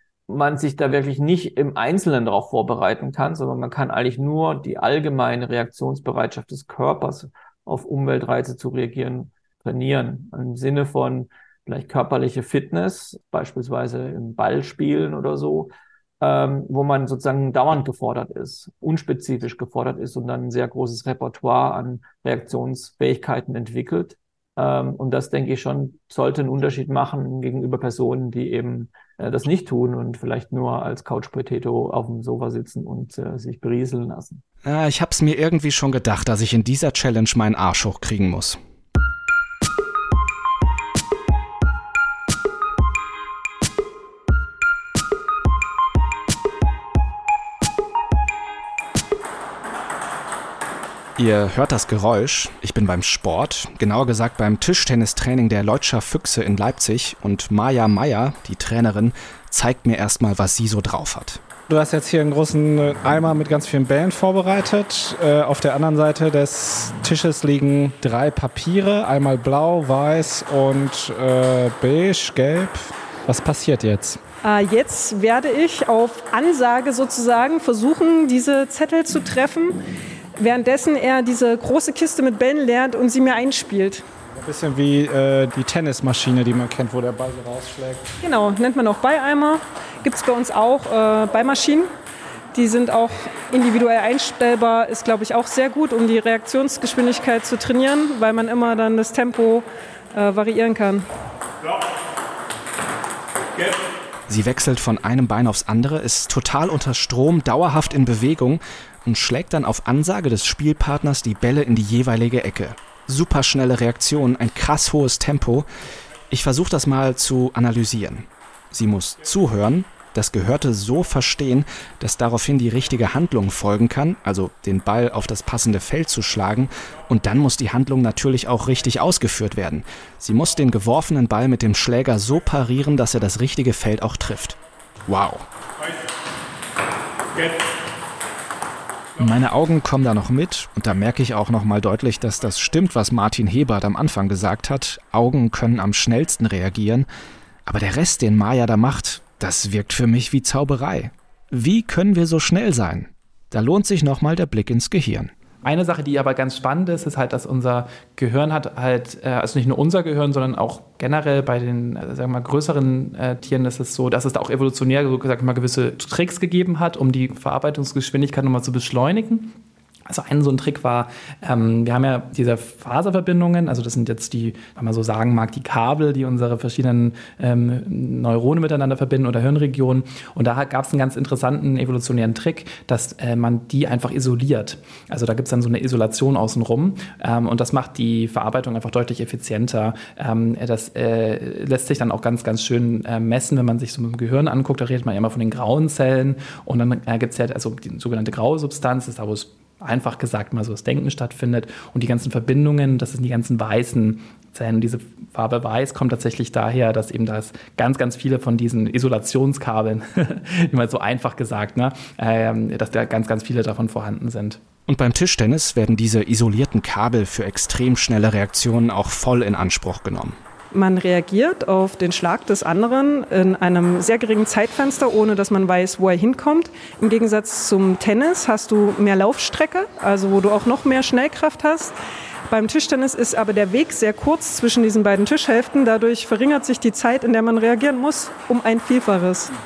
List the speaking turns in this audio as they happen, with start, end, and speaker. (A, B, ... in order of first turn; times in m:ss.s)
0:00.3-0:34.4 A
0:34.6-0:38.6 B
0:51.2-1:01.4 B
1:01.7-1:14.2 C
1:14.4-1:19.8 D
1:20.4-1:24.0 D
1:24.4-1:28.0 C
1:28.2-1:31.9 D
1:32.5-1:41.0 D
1:44.3-1:55.6 B
1:56.3-2:15.4 B
2:19.2-2:27.1 B
2:27.6-2:35.3 B
2:35.6-2:49.5 E
2:50.1-3:34.6 E
3:34.9-3:40.4 B
3:40.7-3:52.0 D
3:52.5-3:59.5 D